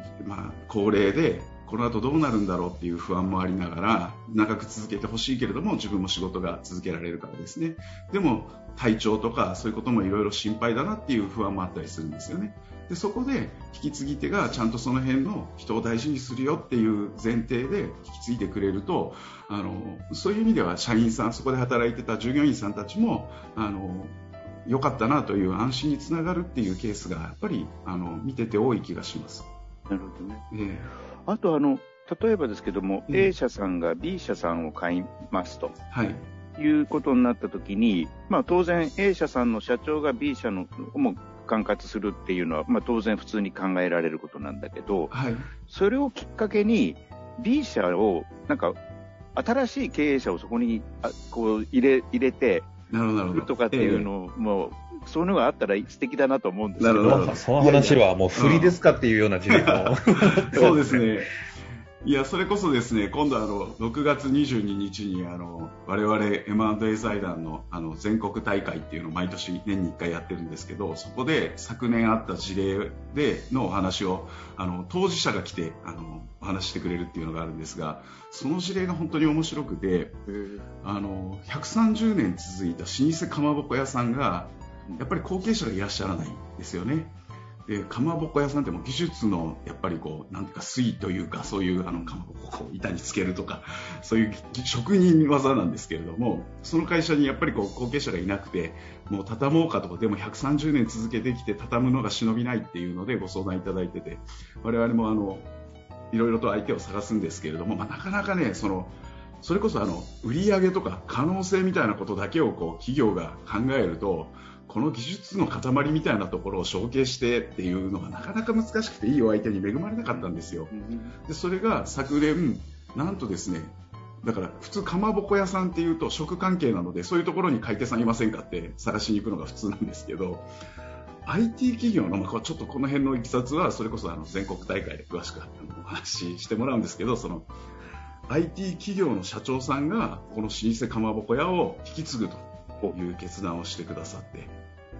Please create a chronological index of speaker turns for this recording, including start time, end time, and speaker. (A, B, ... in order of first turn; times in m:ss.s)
0:00.2-0:29.5 A
0:29.9-0:30.4 B
0:30.5-0:30.9 A
0:31.2-0:35.8 B
0:35.9-0:36.3 A
0:36.6-0:48.8 B
0:45.1-0:45.5 A
0:49.4-0:52.7 B
0:52.9-0:54.1 A
0:53.3-0:57.4 B
0:56.8-0:58.8 A
0:57.0-1:01.1 C
0:59.5-1:01.3 A
1:02.0-1:20.2 A
1:20.3-1:20.6 B
1:20.8-1:45.5 A
1:31.9-1:32.2 B
1:46.1-2:00.7 A
2:00.1-2:01.2 B
2:01.2-2:10.5 A
2:11.2-2:17.5 A
2:18.3-2:24.6 A